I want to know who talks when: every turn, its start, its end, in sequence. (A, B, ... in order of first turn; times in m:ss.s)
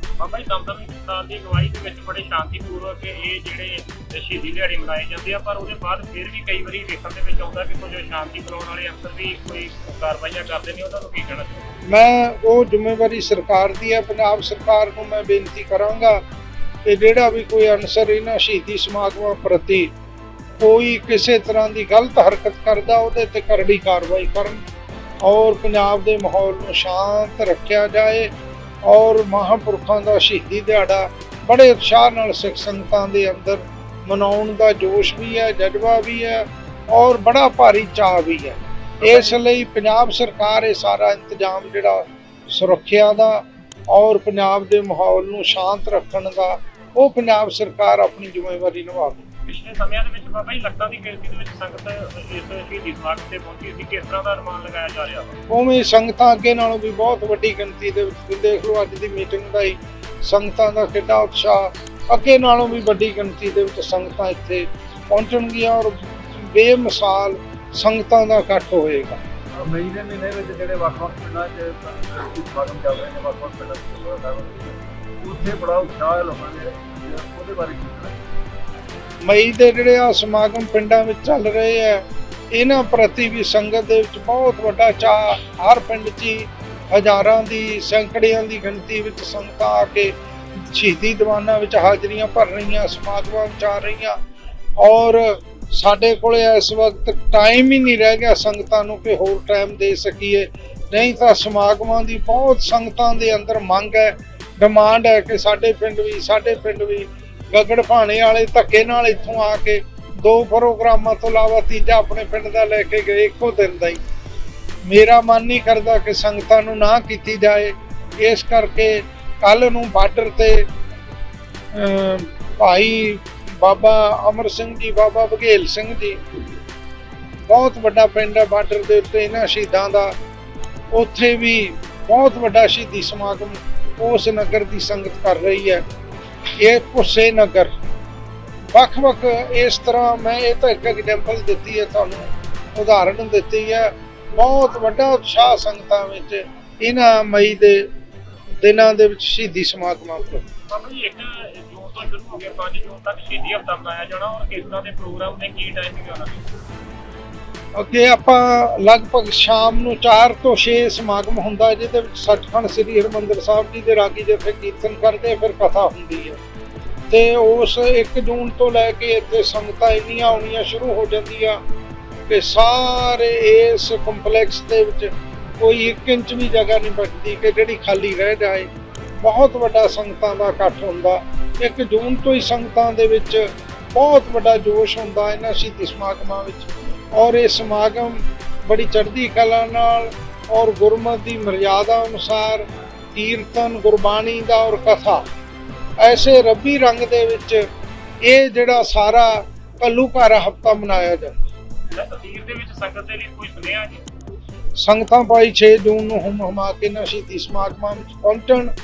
0:00.2-0:11.7 A
0:11.9-0:16.2 B
0:16.8-0:19.9 B
0:20.6-0:24.6 B
0:25.2-0:28.3 B
0:28.9-0:49.2 B
0:39.0-0:39.4 A
0:49.5-0:55.3 A
0:55.5-1:09.2 B
1:09.6-1:18.2 C
1:19.2-1:34.2 B
1:34.8-1:54.0 B
1:54.9-2:00.6 B
2:01.7-2:06.2 B
2:07.5-2:10.1 B
2:10.9-2:15.8 B
2:16.6-2:17.8 B
2:18.7-2:27.8 B
2:28.6-2:30.4 B
2:30.7-2:36.4 A
2:37.8-2:46.4 B
2:47.1-2:51.6 B
2:52.3-2:58.7 B
2:59.2-3:15.2 B
3:16.0-3:17.6 B
3:18.2-3:21.4 B
3:21.9-3:24.0 A
3:24.8-3:28.7 B